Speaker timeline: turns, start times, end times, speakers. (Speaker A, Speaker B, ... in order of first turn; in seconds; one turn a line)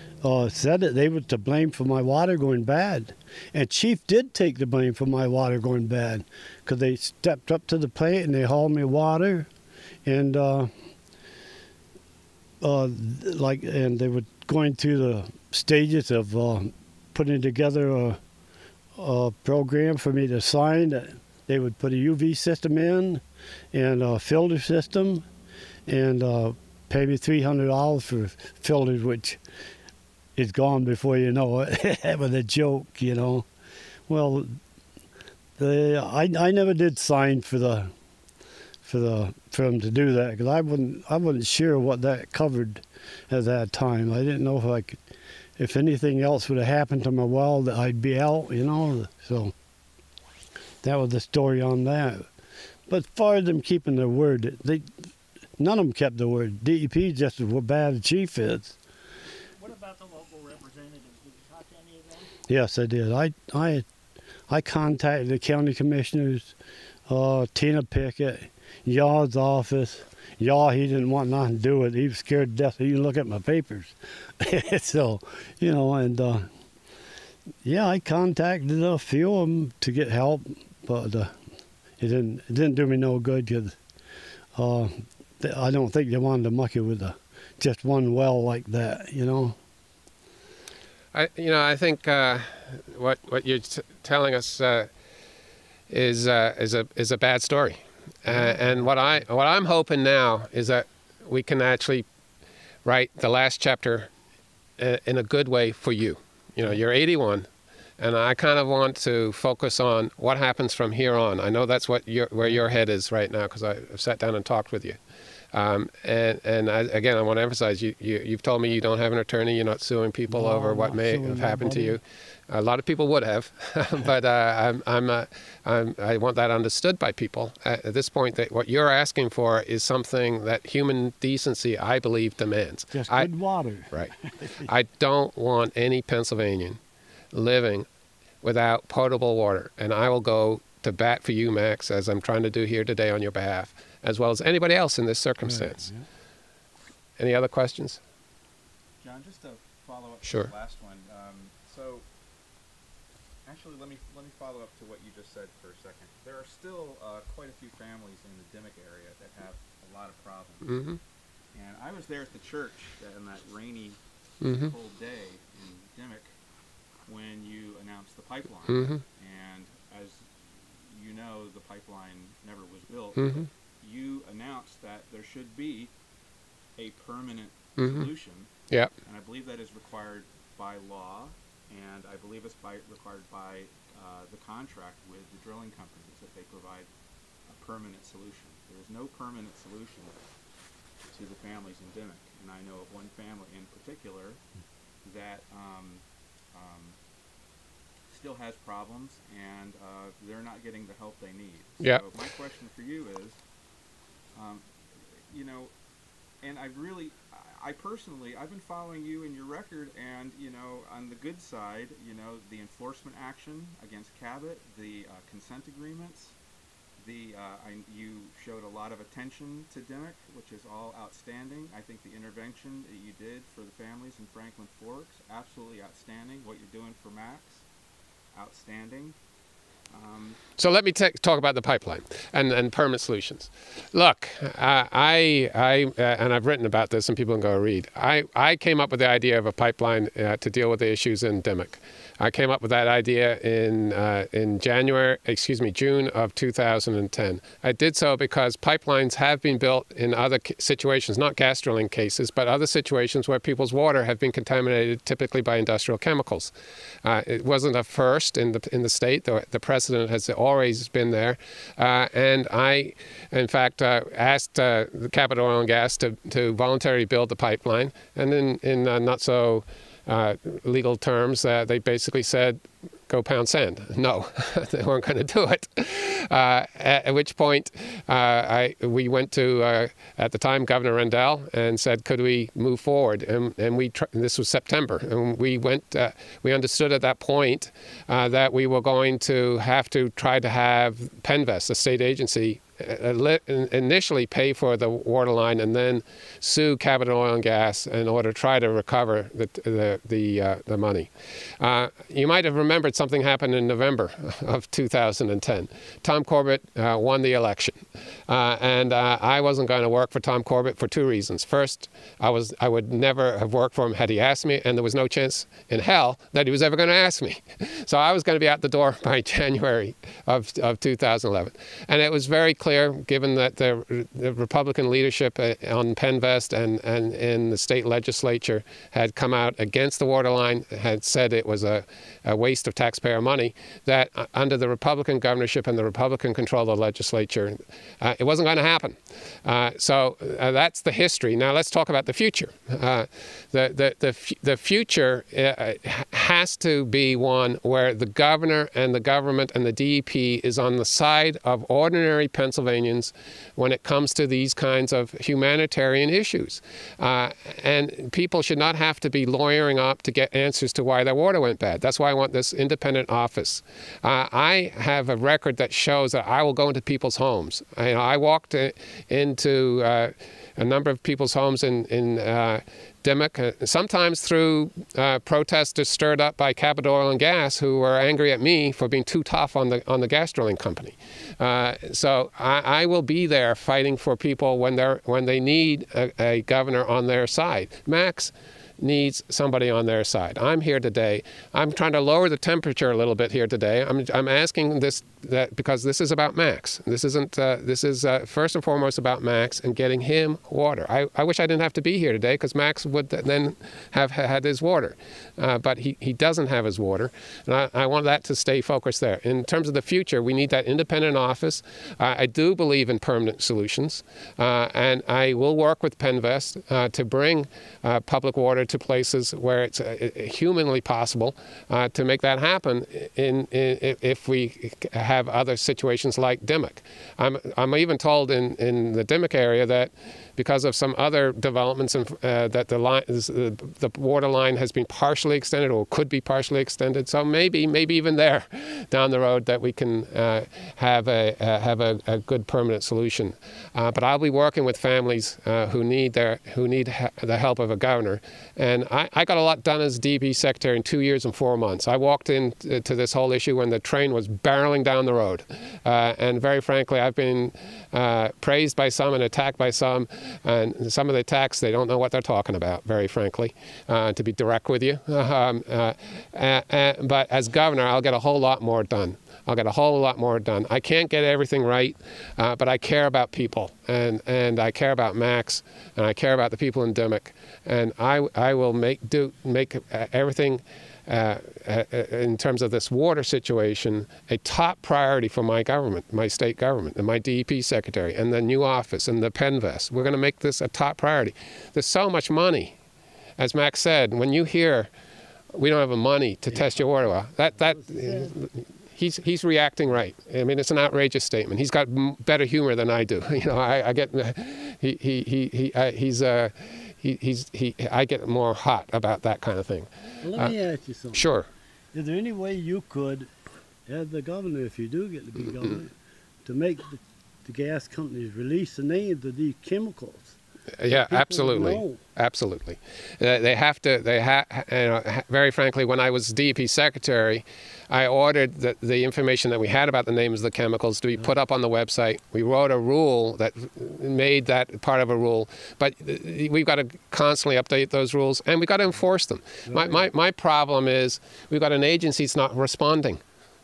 Speaker A: 0.2-9.5
Speaker A: 10.0-10.7
Speaker A: 12.6-18.2
Speaker A: 18.9-25.2
Speaker A: 25.9-29.4
Speaker A: 30.4-33.5
Speaker A: 34.1-34.6
Speaker A: 35.6-37.9
Speaker A: 38.8-45.0
Speaker A: 45.6-49.5
Speaker A: 50.8-52.3
Speaker A: 52.9-58.8
Speaker B: 59.6-62.3
Speaker A: 62.5-63.9
Speaker A: 64.5-66.5
Speaker A: 67.1-76.5
Speaker A: 77.6-81.3
Speaker A: 82.0-83.8
Speaker A: 84.5-89.6
Speaker C: 91.1-94.9
Speaker C: 95.9-102.0
Speaker C: 102.8-104.1
Speaker C: 104.8-107.5
Speaker C: 108.0-115.0
Speaker C: 115.5-133.3
Speaker A: 120.3-122.0
Speaker A: 132.9-134.7
Speaker C: 134.6-136.8
Speaker C: 137.3-137.9
Speaker C: 138.4-145.9
Speaker A: 145.4-146.0
Speaker C: 147.2-148.0
Speaker D: 149.0-152.1
Speaker C: 150.2-150.5
Speaker D: 153.4-160.9
Speaker C: 160.7-161.0
Speaker D: 161.5-166.3
Speaker C: 164.4-164.7
Speaker D: 167.1-175.9
Speaker C: 168.7-169.0
Speaker C: 173.2-173.4
Speaker D: 176.8-178.5
Speaker C: 177.8-178.1
Speaker D: 179.0-186.9
Speaker D: 187.5-190.2
Speaker D: 191.0-194.4
Speaker D: 195.0-197.0
Speaker D: 198.1-203.4
Speaker D: 204.3-205.7
Speaker D: 206.4-216.3
Speaker D: 217.0-227.7
Speaker D: 228.3-229.2
Speaker D: 229.9-230.4
Speaker C: 230.6-256.5
Speaker C: 257.0-492.8
Speaker C: 493.4-494.9
Speaker C: 495.5-510.5
Speaker A: 497.7-498.3
Speaker A: 510.2-511.3
Speaker C: 511.1-511.5
Speaker A: 511.9-513.3
Speaker A: 513.9-515.9
Speaker A: 516.5-520.4
Speaker C: 520.8-543.2
Speaker A: 520.9-522.0
Speaker A: 539.7-540.0